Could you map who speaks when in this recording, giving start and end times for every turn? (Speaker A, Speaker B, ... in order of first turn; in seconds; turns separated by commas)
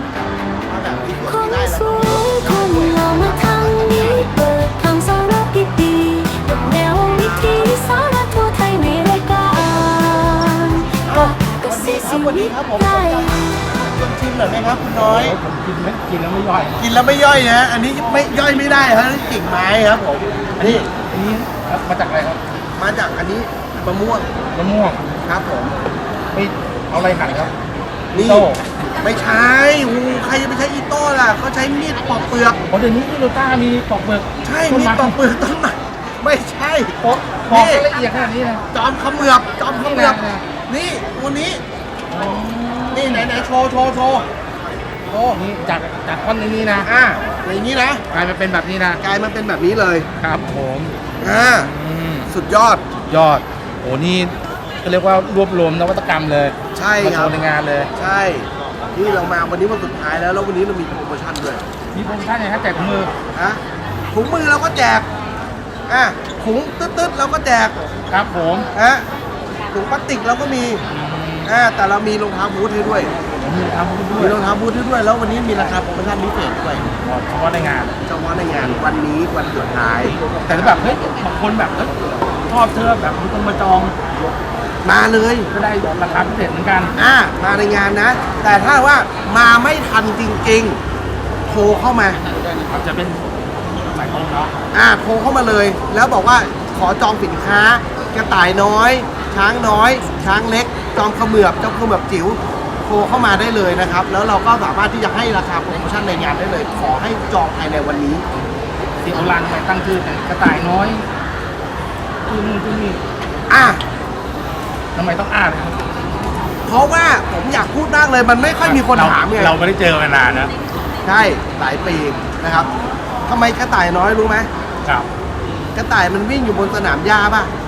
Speaker A: 0.4-4.4, Speaker B: 1.0-13.4, Speaker A: 11.1-15.3, Speaker C: 15.0-16.8, Speaker A: 16.8-20.9, Speaker C: 20.6-22.4, Speaker A: 22.8-24.3, Speaker C: 24.5-25.0, Speaker A: 25.2-25.7, Speaker C: 26.3-27.5, Speaker A: 28.1-28.5, Speaker C: 28.1-28.6, Speaker A: 29.0-32.6, Speaker C: 32.7-35.2, Speaker A: 34.4-37.9, Speaker C: 37.0-38.6, Speaker A: 38.7-41.6, Speaker C: 39.8-40.4, Speaker C: 42.1-43.3, Speaker A: 42.9-44.3, Speaker C: 45.1-46.9, Speaker A: 46.8-48.0, Speaker C: 48.1-49.0, Speaker A: 49.0-50.1, Speaker C: 50.2-50.9, Speaker A: 51.2-51.7, Speaker C: 51.6-52.3, Speaker A: 52.3-52.8, Speaker C: 53.0-57.9, Speaker A: 56.7-57.4, Speaker A: 58.0-61.6, Speaker C: 61.9-63.1, Speaker A: 63.3-65.1, Speaker A: 65.9-67.8, Speaker C: 68.1-68.7, Speaker A: 68.7-69.0, Speaker A: 69.7-70.8, Speaker C: 70.9-71.5, Speaker A: 71.4-73.1, Speaker C: 73.2-74.4, Speaker A: 74.2-76.8, Speaker C: 76.8-78.0, Speaker A: 78.0-80.9, Speaker C: 80.4-84.0, Speaker A: 84.8-85.5, Speaker C: 85.5-86.9, Speaker A: 87.0-90.8, Speaker A: 91.5-92.2, Speaker C: 92.5-94.5, Speaker A: 94.7-108.2, Speaker C: 109.0-111.0, Speaker C: 112.3-113.0, Speaker A: 113.5-113.8, Speaker C: 114.9-115.8, Speaker A: 116.7-119.5, Speaker C: 118.6-120.5, Speaker A: 121.0-122.7, Speaker A: 123.3-124.5, Speaker A: 125.7-127.5